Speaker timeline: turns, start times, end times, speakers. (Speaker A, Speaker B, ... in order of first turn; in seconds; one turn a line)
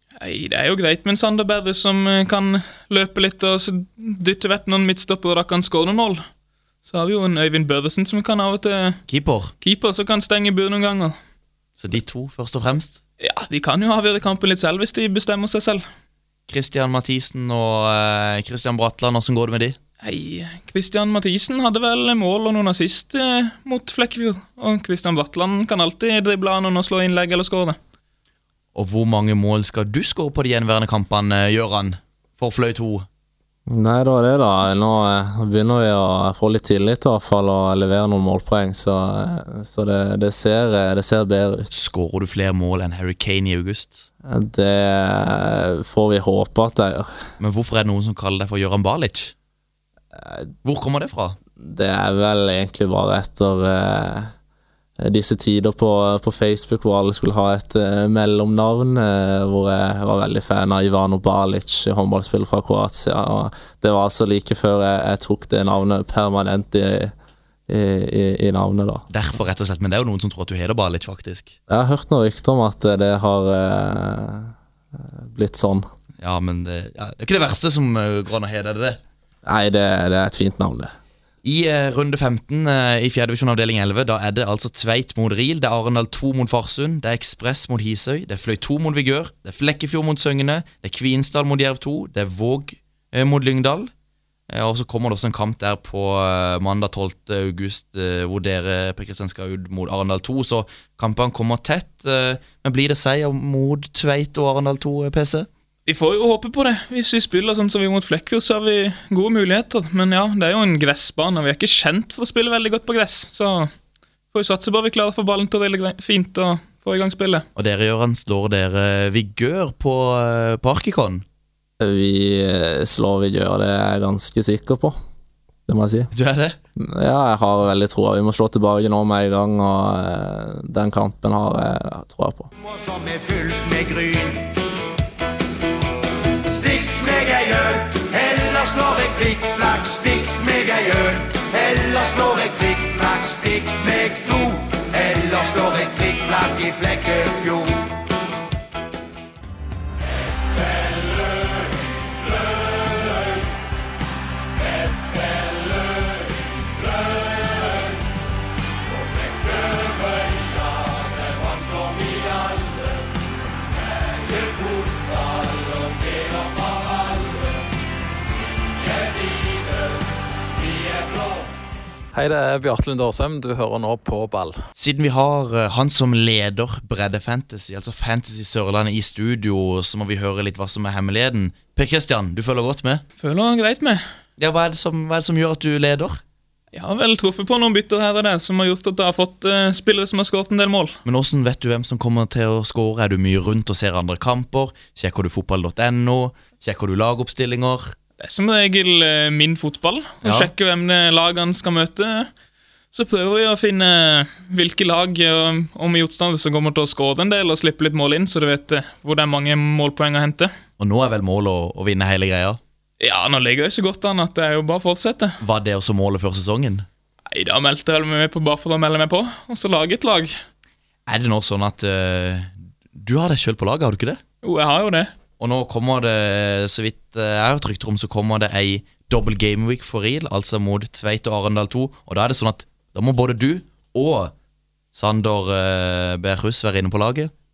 Speaker A: 0.2-6.2
Speaker A: 6.9-9.0
Speaker B: 9.1-9.5
Speaker A: 9.6-11.2
Speaker B: 11.8-13.0
Speaker A: 13.2-15.8
Speaker B: 16.5-19.8
Speaker A: 20.0-27.8
Speaker B: 28.8-33.1
Speaker C: 33.7-41.7
Speaker B: 41.7-44.1
Speaker C: 44.2-47.2
Speaker B: 47.4-49.3
Speaker B: 50.6-51.4
Speaker C: 51.6-54.3
Speaker C: 55.0-67.1
Speaker C: 67.7-69.1
Speaker B: 69.1-71.5
Speaker C: 71.7-75.8
Speaker B: 76.2-79.0
Speaker C: 79.4-80.9
Speaker B: 81.4-93.9
Speaker B: 94.5-105.5
Speaker A: 105.9-113.7
Speaker A: 114.3-117.5
Speaker B: 117.6-121.2
Speaker C: 121.8-125.0
Speaker C: 125.7-126.1
Speaker B: 126.1-126.6
Speaker C: 126.8-132.5
Speaker D: 132.6-134.6
Speaker D: 136.4-147.9
Speaker D: 160.2-162.7
Speaker D: 164.4-167.1
Speaker D: 170.8-171.2
Speaker E: 172.1-174.6
Speaker B: 174.8-183.0
Speaker A: 183.2-184.0
Speaker B: 184.4-186.2
Speaker A: 186.7-191.0
Speaker B: 191.1-197.9
Speaker A: 198.2-202.3
Speaker B: 200.2-200.5
Speaker A: 202.9-210.5
Speaker B: 210.8-212.6
Speaker A: 213.0-215.4
Speaker B: 215.4-216.8
Speaker A: 217.3-220.3
Speaker B: 221.1-224.2
Speaker A: 224.4-225.1
Speaker B: 225.4-234.3
Speaker B: 234.9-237.3